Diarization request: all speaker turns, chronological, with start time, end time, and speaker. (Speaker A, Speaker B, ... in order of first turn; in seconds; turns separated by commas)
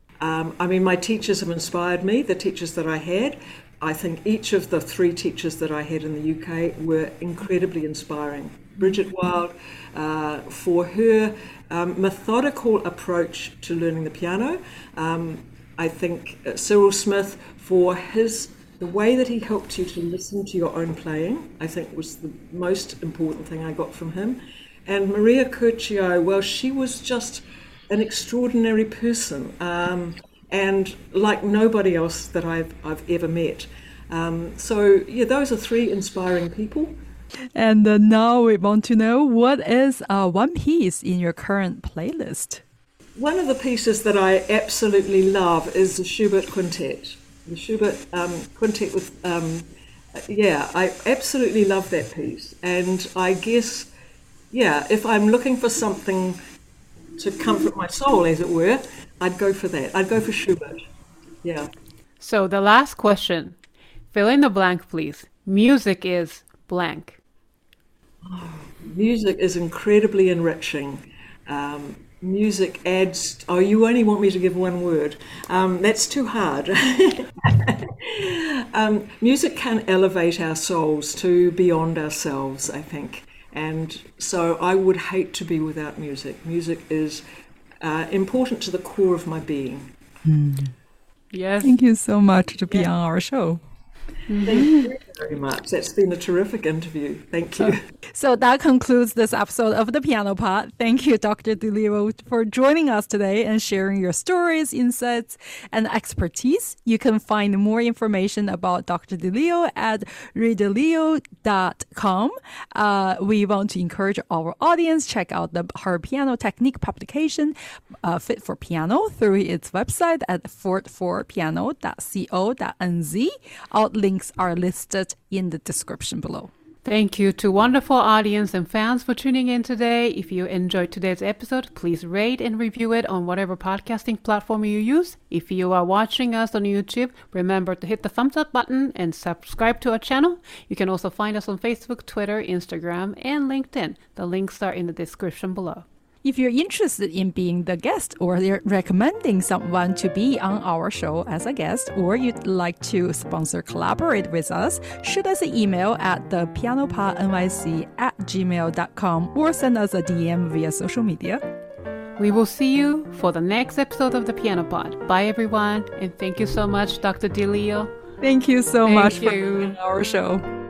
Speaker A: 0.2-37.0, Speaker B: 37.5-42.6, Speaker A: 43.1-53.9, Speaker A: 54.5-56.4, Speaker A: 57.2-60.8, Speaker A: 61.4-61.7, Speaker C: 62.2-63.6, Speaker C: 64.1-67.2, Speaker A: 68.2-87.2, Speaker A: 87.8-89.9, Speaker B: 90.2-90.7, Speaker C: 91.3-91.7, Speaker B: 91.6-93.6, Speaker C: 94.3-94.9, Speaker A: 94.4-97.8, Speaker B: 98.1-126.5, Speaker C: 126.8-145.8, Speaker B: 146.2-161.4, Speaker C: 162.2-167.9, Speaker B: 168.2-170.4, Speaker C: 168.8-169.8